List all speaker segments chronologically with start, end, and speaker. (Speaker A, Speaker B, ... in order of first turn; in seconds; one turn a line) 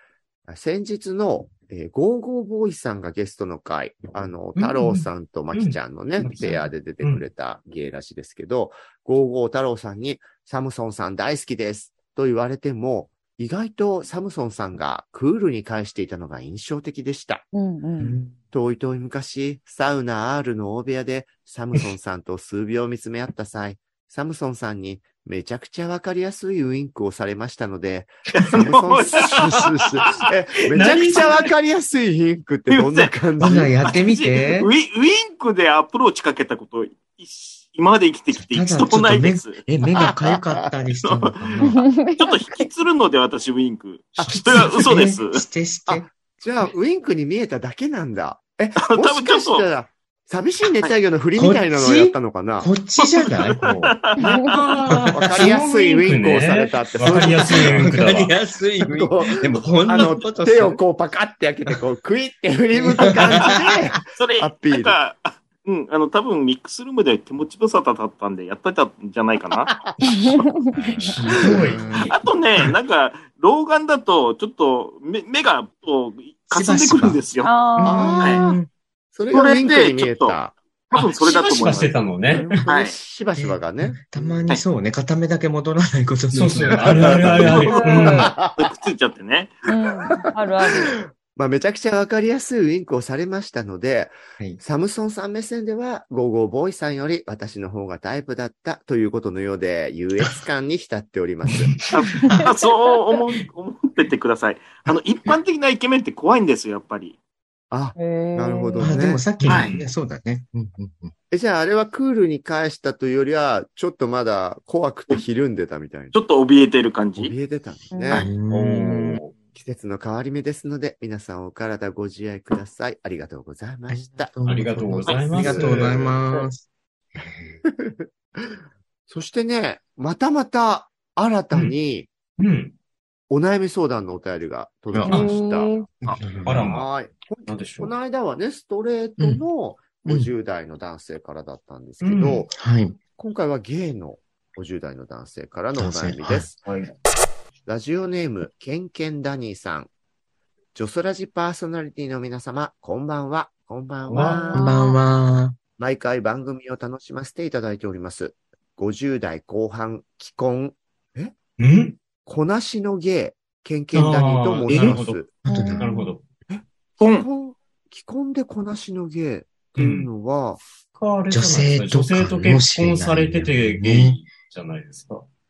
Speaker A: 0.5-17.4
Speaker B: 4.6-7.2
Speaker C: 17.5-18.2
Speaker D: 18.0-18.4
Speaker A: 18.5-33.8
Speaker E: 28.3-29.7
Speaker B: 30.7-31.5
Speaker E: 30.9-31.3
Speaker E: 32.7-39.6
Speaker D: 33.4-34.7
Speaker D: 38.3-41.8
Speaker A: 40.0-40.5
Speaker E: 41.0-41.4
Speaker C: 41.6-42.4
Speaker E: 42.2-45.4
Speaker A: 44.2-45.0
Speaker D: 44.3-46.1
Speaker A: 45.9-52.7
Speaker E: 48.8-49.7
Speaker D: 51.4-54.0
Speaker E: 53.2-54.2
Speaker C: 54.2-54.6
Speaker B: 54.5-58.3
Speaker D: 54.7-55.7
Speaker A: 55.1-58.0
Speaker D: 57.0-60.8
Speaker A: 58.8-65.0
Speaker D: 62.8-64.0
Speaker E: 63.4-69.7
Speaker C: 70.0-70.9
Speaker D: 70.8-72.2
Speaker B: 71.0-71.8
Speaker A: 71.4-72.1
Speaker E: 72.1-77.5
Speaker D: 76.5-77.2
Speaker C: 77.4-78.5
Speaker D: 77.8-78.7
Speaker A: 77.8-78.5
Speaker E: 78.2-78.5
Speaker A: 79.1-80.5
Speaker E: 79.3-80.4
Speaker E: 80.9-82.0
Speaker B: 80.9-82.6
Speaker A: 81.6-84.6
Speaker E: 82.7-83.0
Speaker D: 83.4-87.7
Speaker B: 86.3-88.4
Speaker A: 86.8-88.7
Speaker E: 87.5-89.6
Speaker C: 87.5-88.3
Speaker C: 89.7-91.0
Speaker A: 90.6-101.9
Speaker D: 101.5-102.5
Speaker E: 101.9-107.2
Speaker A: 107.7-109.2
Speaker C: 108.0-108.9
Speaker D: 108.8-111.1
Speaker B: 109.4-109.9
Speaker E: 109.5-109.8
Speaker A: 111.3-116.2
Speaker E: 116.1-117.3
Speaker A: 117.2-118.3
Speaker C: 117.9-118.2
Speaker D: 118.2-119.1
Speaker B: 118.5-119.3
Speaker A: 119.5-124.3
Speaker D: 123.9-126.6
Speaker B: 124.4-126.2
Speaker E: 125.1-125.3
Speaker A: 125.1-126.1
Speaker D: 127.2-127.6
Speaker A: 127.7-128.6
Speaker A: 129.1-132.1
Speaker B: 132.4-132.7
Speaker A: 133.3-135.7
Speaker D: 134.9-135.2
Speaker C: 135.1-135.9
Speaker D: 136.0-136.7
Speaker B: 136.1-136.9
Speaker A: 136.5-142.5
Speaker B: 137.5-137.9
Speaker D: 139.2-139.4
Speaker D: 140.0-140.3
Speaker B: 142.0-142.4
Speaker D: 142.5-143.0
Speaker A: 143.2-146.6
Speaker D: 145.8-146.5
Speaker B: 146.6-146.9
Speaker A: 147.7-149.9
Speaker A: 150.8-154.8
Speaker B: 154.1-154.6
Speaker C: 154.3-155.0
Speaker D: 154.5-155.6
Speaker A: 155.8-161.3
Speaker B: 161.6-162.0
Speaker A: 162.2-165.4
Speaker B: 163.9-166.2
Speaker D: 164.7-165.9
Speaker C: 165.5-166.1
Speaker A: 166.5-170.6
Speaker E: 167.0-167.3
Speaker B: 169.8-170.1
Speaker B: 170.9-175.3
Speaker D: 171.3-174.2